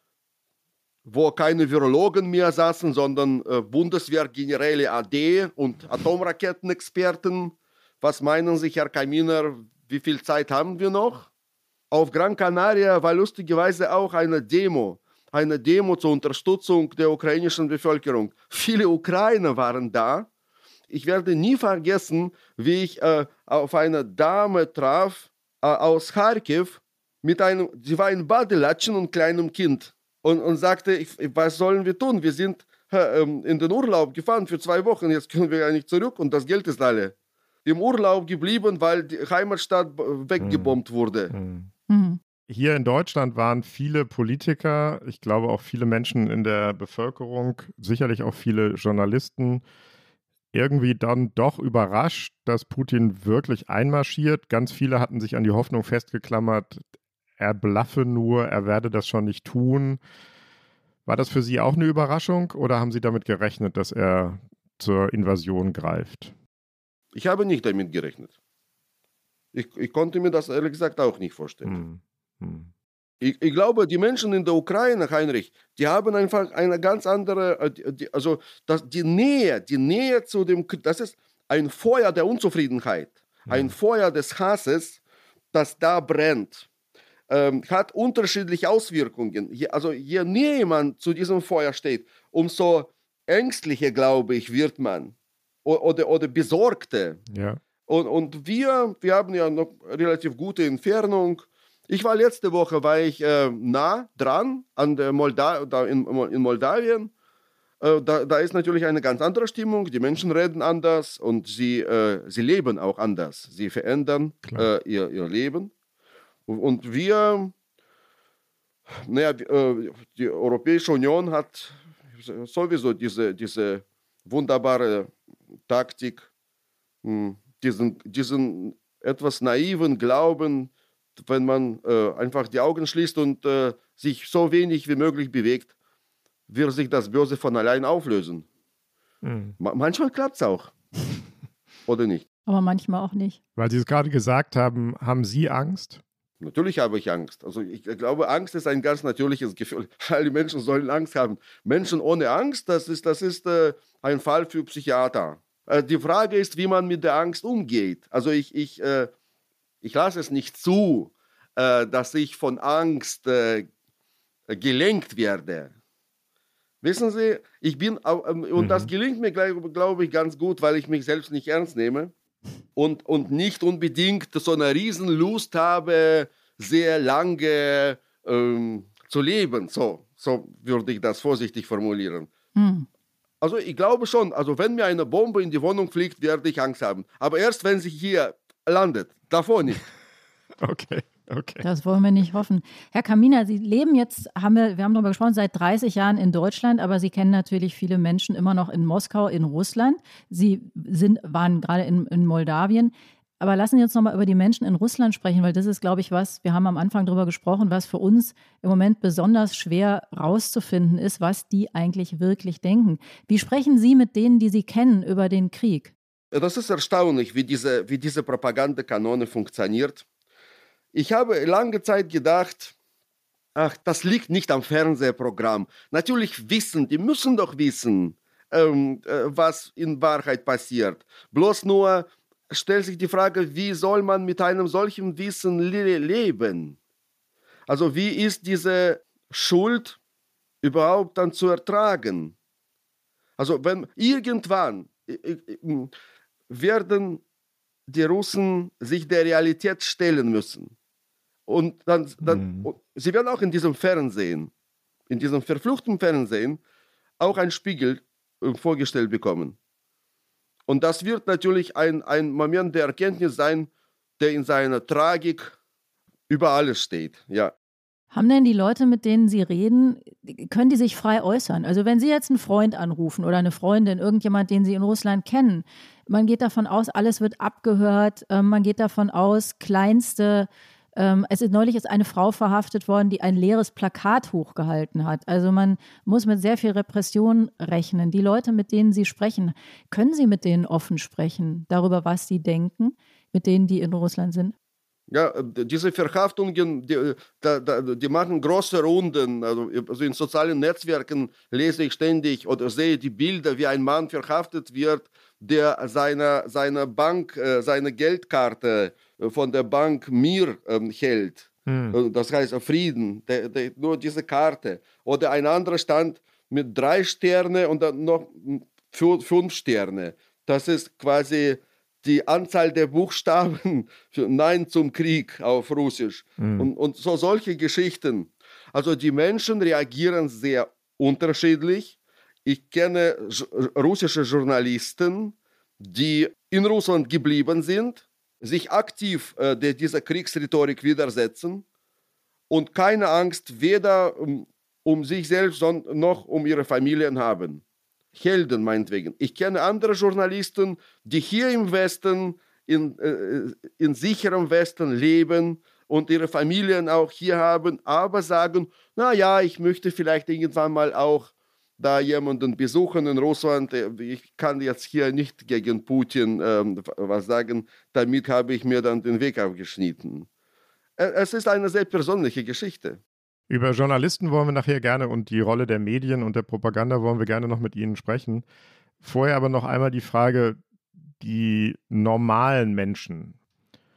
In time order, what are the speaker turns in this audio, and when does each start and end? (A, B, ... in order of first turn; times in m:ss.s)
0:01.1-0:11.3 A
0:11.9-0:20.3 A
0:20.9-0:41.3 A
0:40.4-0:40.7 B
0:41.3-0:41.7 B
0:41.9-0:42.2 C
0:42.5-0:49.6 B
0:50.5-0:56.8 B
0:57.4-1:00.0 B
1:01.1-1:06.3 B
1:07.1-1:08.3 A
1:09.5-1:11.8 A
1:11.6-1:12.7 B
1:13.2-1:25.0 A
1:25.5-1:26.7 A
1:27.3-1:37.2 A
1:37.3-1:37.6 B
1:37.9-1:47.1 A
1:47.8-1:55.7 A
1:56.5-1:57.5 A
1:58.9-2:05.1 A
2:05.7-2:06.3 A
2:07.0-2:15.7 A
2:16.5-2:18.4 A
2:19.2-2:19.5 B
2:19.6-2:20.7 A
2:21.9-2:22.2 A
2:22.5-2:23.4 C
2:23.6-2:26.0 B
2:26.4-2:39.1 A
2:39.8-2:43.7 A
2:44.5-2:45.7 A
2:46.8-2:52.1 A
2:48.6-2:48.9 B
2:52.8-3:02.3 A
3:02.6-3:02.9 C
3:03.4-3:09.8 A
3:10.6-3:11.6 B
3:11.6-3:35.9 C
3:36.3-3:40.0 A
3:40.9-3:42.7 A
3:43.5-3:56.8 A
3:57.7-4:00.0 A
4:00.6-4:02.3 A
4:03.4-4:05.9 A
4:06.5-4:07.2 A
4:07.9-4:10.7 A
4:11.5-4:14.5 A
4:12.2-4:12.7 B
4:15.1-4:16.6 A
4:17.2-4:19.6 A
4:20.7-4:25.6 A
4:26.3-4:27.5 A
4:28.1-4:54.5 C
4:55.1-5:41.6 A
5:11.7-5:12.0 B
5:26.4-5:26.7 B
5:42.5-5:47.6 A
5:48.1-6:10.3 A
6:11.0-6:13.0 A
6:13.5-6:18.4 B
6:19.0-6:20.6 B
6:21.2-6:23.4 B